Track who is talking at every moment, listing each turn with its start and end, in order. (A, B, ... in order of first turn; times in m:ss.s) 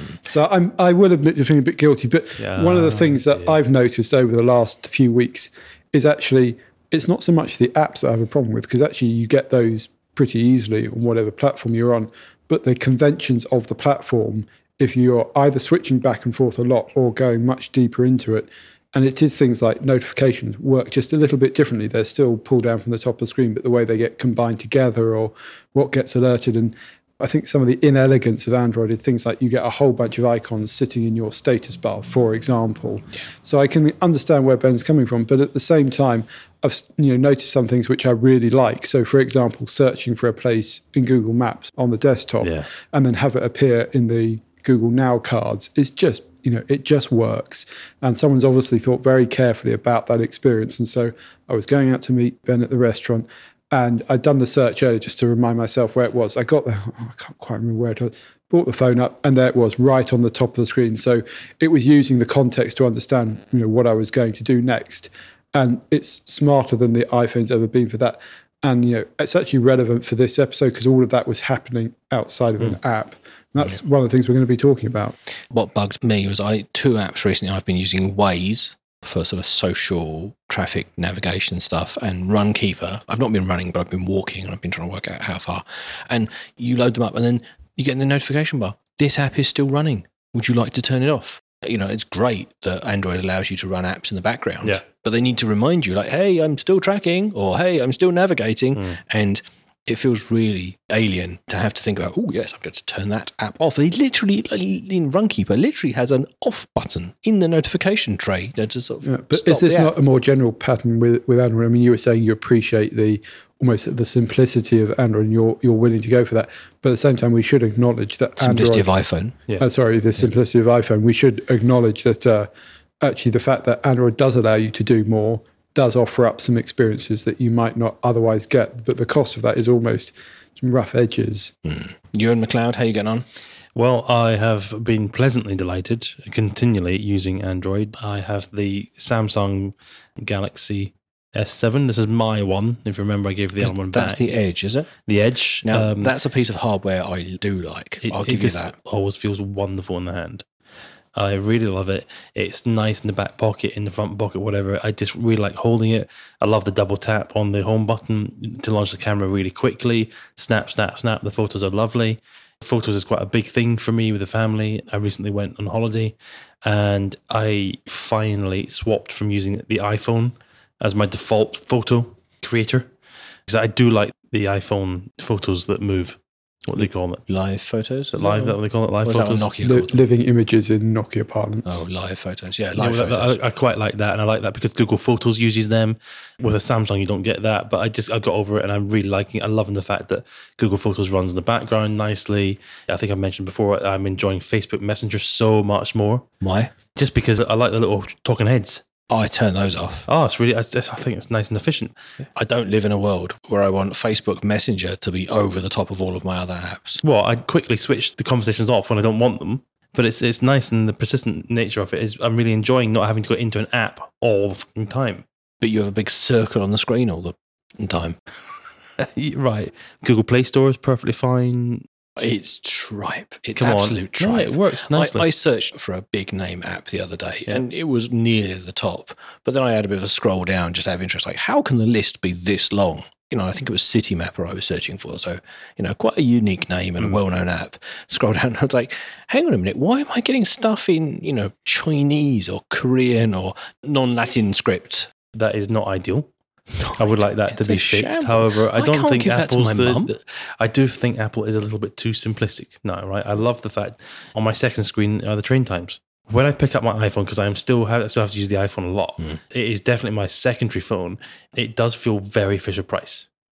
0:00.2-1:15.2 A
0:02.4-0:03.6 B
0:42.4-0:42.7 B
1:15.5-1:49.9 C
1:49.0-1:59.0 A
1:58.4-1:59.4 C
1:59.6-2:02.5 A
2:03.0-2:11.5 A
2:11.6-2:13.2 C
2:13.8-2:24.2 B
2:23.6-2:24.9 C
2:25.0-2:26.1 B
2:25.6-2:28.7 C
2:28.0-2:30.4 B
2:31.2-2:52.9 B
2:53.5-2:57.2 B
2:57.3-2:58.3 C
2:58.2-2:59.5 B
2:58.2-2:58.5 A
2:59.0-3:00.0 C
2:59.6-3:01.8 A
3:01.7-3:03.4 C
3:02.8-3:16.3 B
3:16.4-3:16.7 C
3:17.0-3:18.8 B
3:19.1-3:20.1 C
3:20.1-3:21.9 B
3:22.4-3:27.0 C
3:27.0-3:35.2 B
3:35.6-3:38.2 C
3:39.0-3:41.8 B
3:42.2-4:05.1 C
3:43.6-3:45.3 B
4:05.3-4:06.3 B
4:06.8-4:10.1 C
4:07.0-4:23.3 B